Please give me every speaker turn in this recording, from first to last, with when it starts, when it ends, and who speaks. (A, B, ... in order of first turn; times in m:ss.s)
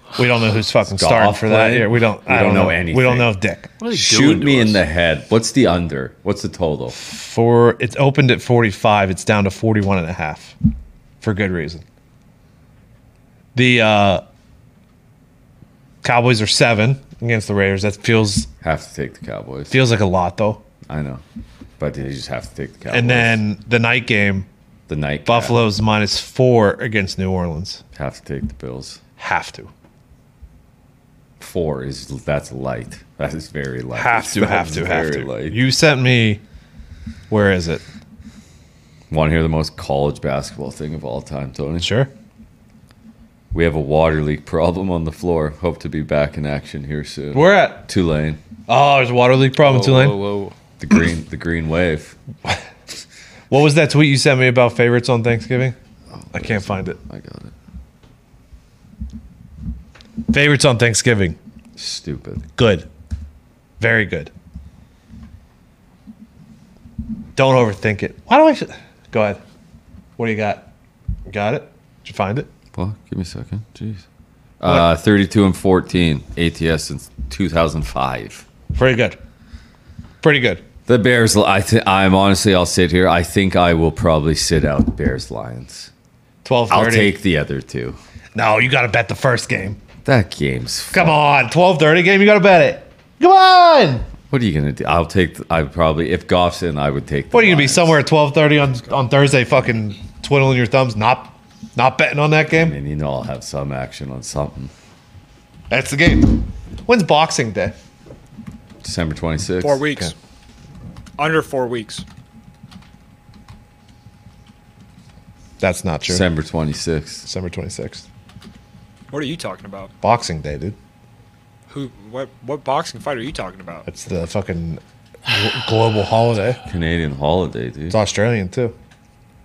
0:00.2-0:03.7 A
0:00.9-0:03.3 B
0:03.8-0:04.8 C
0:03.9-0:07.0 B
0:06.9-0:10.6 A
0:11.2-0:11.8 A
0:13.6-0:14.2 A
0:16.0-0:18.5 A
0:18.6-0:19.8 B
0:19.7-0:20.6 A
0:20.9-0:21.2 B
0:21.8-0:23.4 B
0:22.9-0:24.5 A
0:24.9-0:25.6 B
0:25.3-0:27.8 A
0:27.9-0:29.0 B
0:29.2-0:29.7 A
0:31.4-0:35.6 B
0:33.9-0:36.4 A
0:37.3-0:37.8 A
0:39.1-0:41.9 B
0:41.8-0:42.1 A
0:43.5-0:48.4 B
0:47.3-0:47.8 A
0:48.7-0:50.2 A
0:49.6-0:50.5 C
0:50.8-0:52.2 B
0:53.5-0:55.8 A
0:56.1-0:57.5 B
0:56.3-0:57.0 A
1:00.3-1:01.4 A
1:01.8-1:02.4 B
1:02.6-1:02.9 A
1:03.8-1:04.3 A
1:07.4-1:09.4 A
1:10.2-1:10.7 A
1:11.3-1:12.5 A
1:12.7-1:14.0 B
1:14.6-1:18.4 B
1:18.7-1:19.2 A
1:20.2-1:20.6 A
1:20.9-1:25.9 B
1:26.4-1:27.1 A
1:26.7-1:28.0 B
1:28.4-1:29.8 A
1:30.0-1:31.2 B
1:30.9-1:34.1 A
1:34.3-1:38.0 B
1:37.3-1:42.8 A
1:42.5-1:44.7 B
1:45.7-1:47.7 A
1:48.8-1:49.9 B
1:49.6-1:50.1 D
1:51.2-1:52.0 D
1:55.6-1:56.3 A
1:56.1-1:57.3 B
1:57.3-1:58.0 A
1:59.1-1:59.9 D
2:00.0-2:00.8 A
2:01.7-2:03.8 D
2:03.9-2:06.6 A
2:06.6-2:08.0 B
2:07.9-2:08.7 A